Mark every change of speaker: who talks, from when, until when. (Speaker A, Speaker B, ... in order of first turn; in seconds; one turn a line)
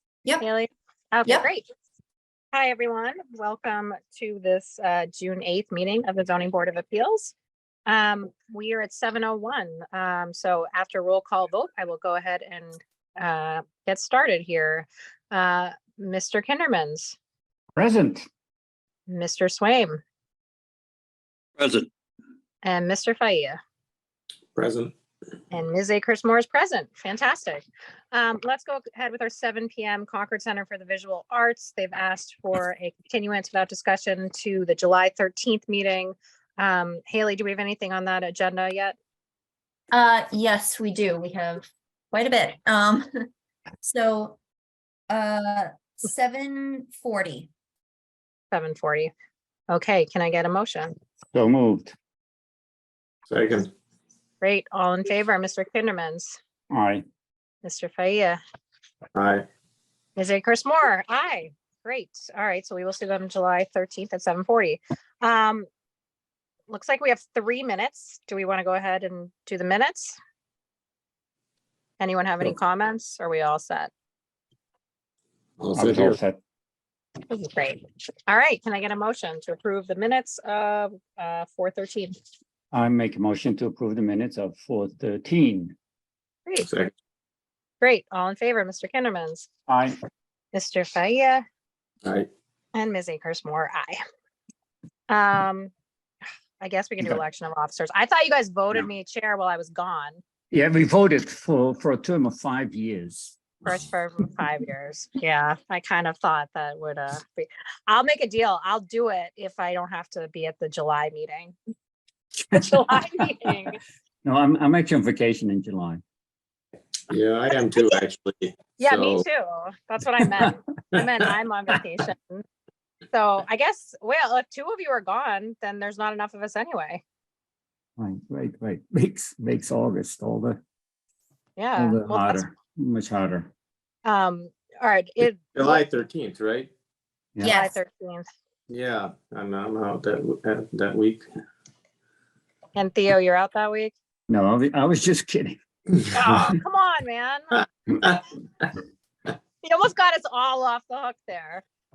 Speaker A: 0.4-1.6
Speaker A: 2.5-7.3
Speaker A: 7.9-17.2
Speaker B: 17.8-18.3
Speaker A: 19.1-20.0
Speaker A: 22.6-23.6
Speaker C: 24.6-24.9
Speaker A: 25.5-39.0
Speaker D: 39.9-43.1
Speaker D: 43.8-44.4
Speaker D: 45.1-47.5
Speaker A: 48.5-49.1
Speaker A: 49.7-50.9
Speaker B: 51.3-52.0
Speaker C: 53.3-53.7
Speaker A: 54.4-56.4
Speaker B: 56.7-57.0
Speaker A: 57.6-58.4
Speaker C: 59.1-59.5
Speaker A: 60.2-65.7
Speaker A: 66.7-70.2
Speaker A: 72.0-73.9
Speaker C: 75.6-76.2
Speaker B: 75.7-76.4
Speaker A: 77.3-82.1
Speaker B: 82.7-85.8
Speaker C: 86.6-86.9
Speaker A: 87.8-89.5
Speaker B: 89.7-90.0
Speaker A: 90.5-91.4
Speaker A: 92.8-94.0
Speaker A: 95.1-95.7
Speaker A: 96.6-100.2
Speaker B: 100.5-103.5
Speaker A: 103.7-111.6
Speaker A: 112.5-113.8
Speaker B: 112.5-112.8
Speaker B: 114.2-116.0
Speaker C: 117.1-119.2
Speaker A: 118.8-122.4
Speaker A: 123.1-127.0
Speaker B: 128.0-130.6
Speaker A: 131.6-132.4
Speaker B: 131.8-133.5
Speaker A: 134.1-135.8
Speaker C: 135.6-136.7
Speaker D: 137.4-137.7
Speaker A: 137.5-138.3
Speaker C: 138.7-141.3
Speaker A: 142.8-143.9
Speaker B: 144.3-145.6
Speaker A: 146.1-147.5
Speaker A: 149.6-151.6